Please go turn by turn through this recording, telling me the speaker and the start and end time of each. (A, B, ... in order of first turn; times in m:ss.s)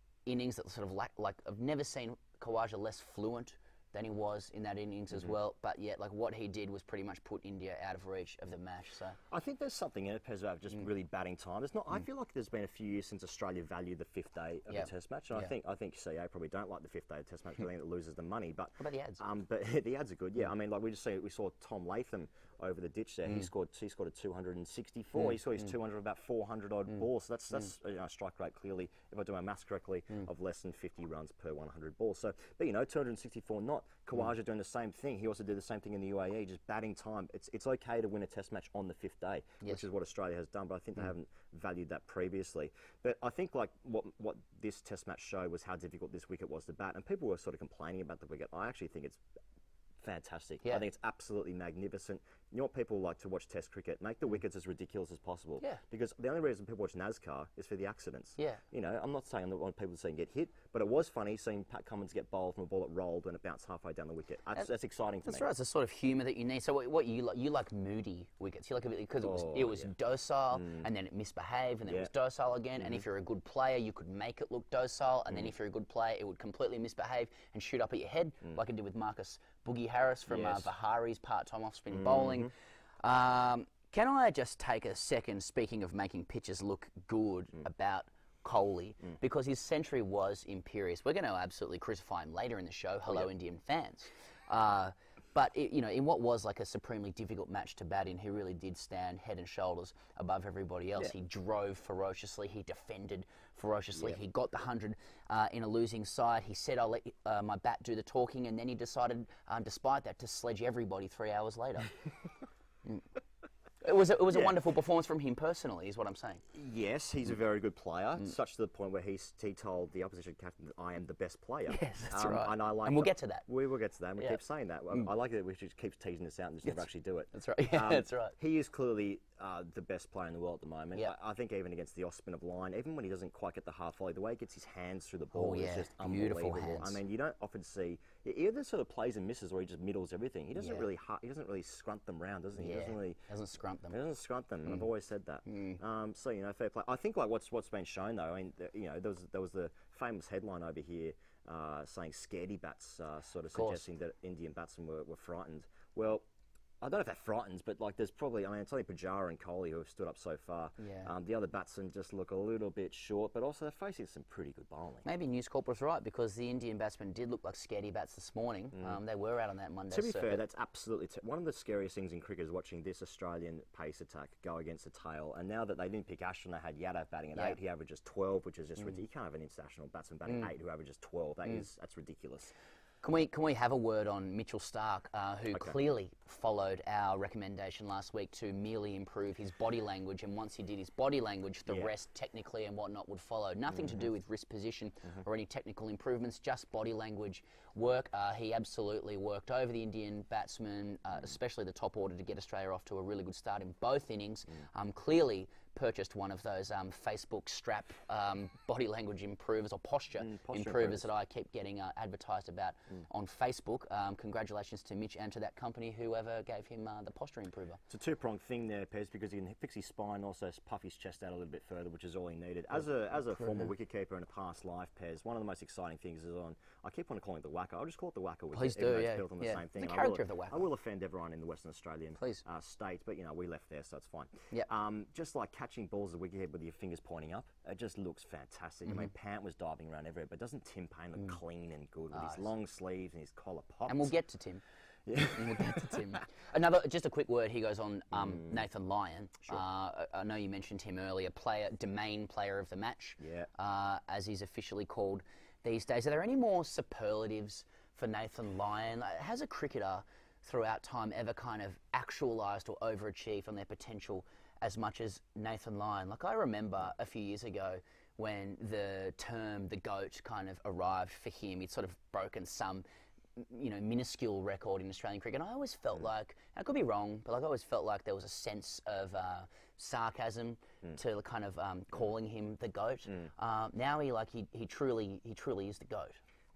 0:00.3-0:09.2 A
0:09.3-0:49.2 B
0:14.7-0:15.5 A
0:18.8-0:19.2 A
0:50.0-1:05.5 B
1:05.2-1:22.5 A
1:09.2-1:09.9 B
1:10.6-1:10.9 B
1:20.3-1:20.7 B
1:21.9-1:22.5 B
1:23.0-1:51.9 A
1:53.8-1:56.4 A
1:56.5-2:23.2 B
2:01.7-2:03.5 A
2:07.3-2:08.4 A
2:15.3-2:17.0 A
2:20.6-2:20.9 A
2:22.6-2:24.0 A
2:23.9-2:36.2 B
2:25.5-2:25.8 A
2:33.6-2:33.8 A
2:36.8-2:45.0 B
2:40.8-2:41.1 A
2:45.0-2:50.4 A
2:49.9-3:02.5 B
3:03.0-3:37.8 A
3:13.7-3:14.1 B
3:30.2-3:31.1 B
3:37.9-4:04.1 B
3:48.5-3:50.6 A
3:52.2-3:52.4 A
4:02.1-4:02.4 A
4:03.9-4:04.6 A
4:05.1-4:06.2 B
4:05.2-4:32.8 A
4:08.1-4:08.5 B
4:13.2-4:13.5 B
4:33.4-4:46.2 A